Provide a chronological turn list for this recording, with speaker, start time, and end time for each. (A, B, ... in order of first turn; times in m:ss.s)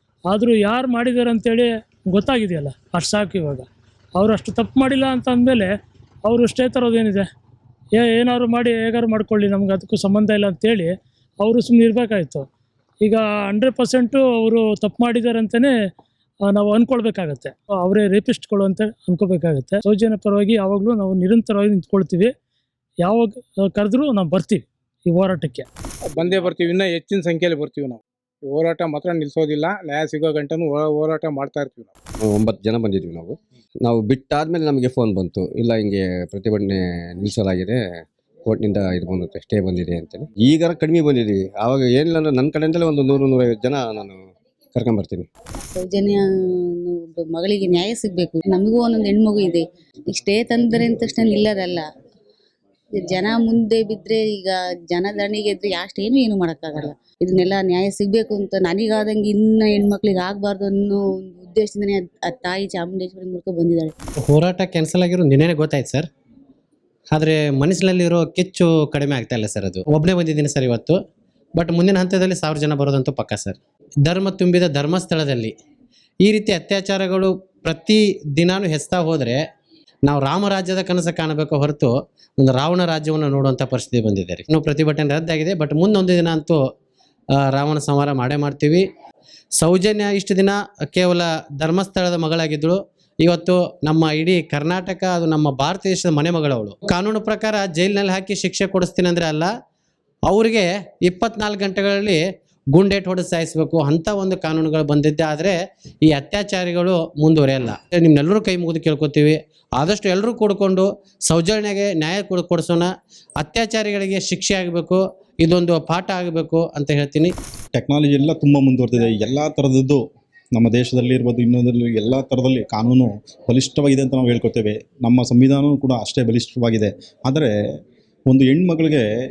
0:00.3-0:03.7 A
0:04.2-0:05.7 A
0:06.2-0:07.3 A
0:08.0-0:12.5 A
0:13.0-0:15.7 A
0:16.5-0:22.3 A
0:23.0-0:25.7 A
0:26.2-0:31.9 B
0:32.2-0:37.8 C
0:38.5-0:44.2 C
0:44.8-0:45.3 C
0:45.8-0:51.8 D
0:53.0-1:03.9 D
1:04.3-1:06.1 E
1:07.1-1:11.0 E
1:11.6-1:15.5 E
1:16.2-1:19.4 E
1:20.1-1:26.6 E
1:27.4-1:28.8 E
1:29.6-1:39.5 E
1:40.3-1:42.2 E
1:42.7-1:57.3 E
1:57.8-2:00.0 F
2:00.6-2:07.5 F
2:08.3-2:09.1 F